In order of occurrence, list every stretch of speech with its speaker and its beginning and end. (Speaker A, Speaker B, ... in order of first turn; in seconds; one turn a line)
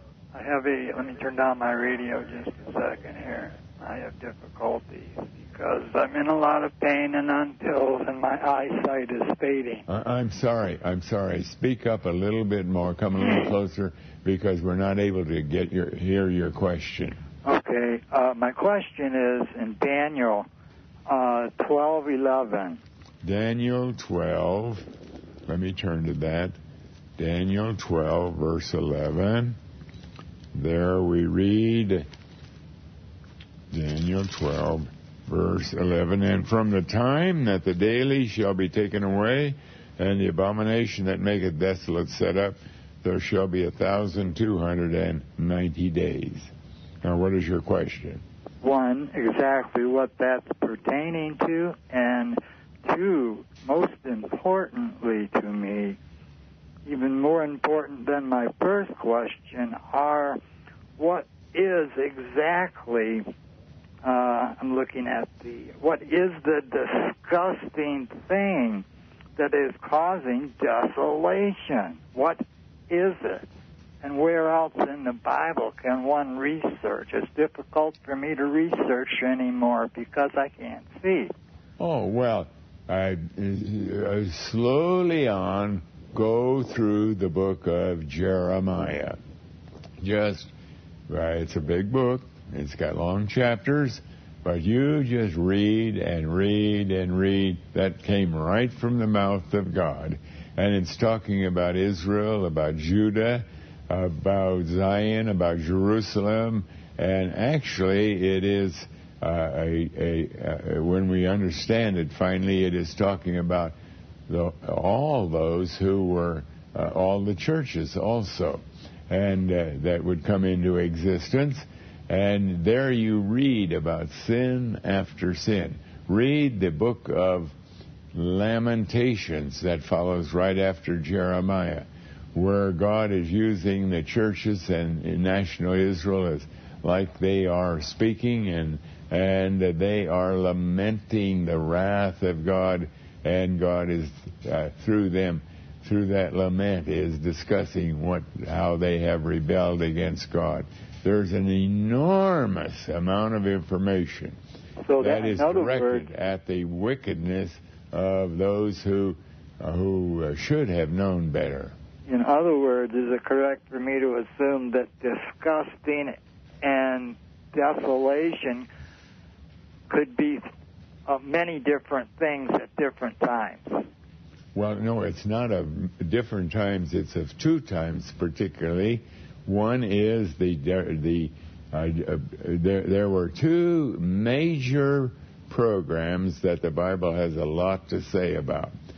Speaker A: 0.3-9.8
Speaker B: 9.9-17.1
Speaker A: 17.4-20.5
Speaker A: 21.1-22.8
Speaker B: 23.2-24.9
Speaker B: 25.5-26.5
Speaker B: 27.2-29.6
Speaker B: 30.5-32.0
Speaker B: 33.7-46.5
Speaker B: 47.0-48.2
Speaker A: 48.6-56.0
Speaker A: 56.9-60.4
Speaker A: 61.0-63.3
Speaker A: 64.0-68.8
Speaker A: 69.3-73.5
Speaker A: 74.0-81.3
Speaker B: 81.8-89.2
Speaker B: 90.0-90.5
Speaker B: 91.1-113.7
Speaker B: 114.3-127.5
Speaker B: 128.1-154.4
Speaker A: 154.8-156.1
Speaker B: 155.0-161.7
Speaker A: 162.1-168.7
Speaker A: 169.9-170.5
Speaker A: 171.1-173.9
Speaker B: 174.5-188.7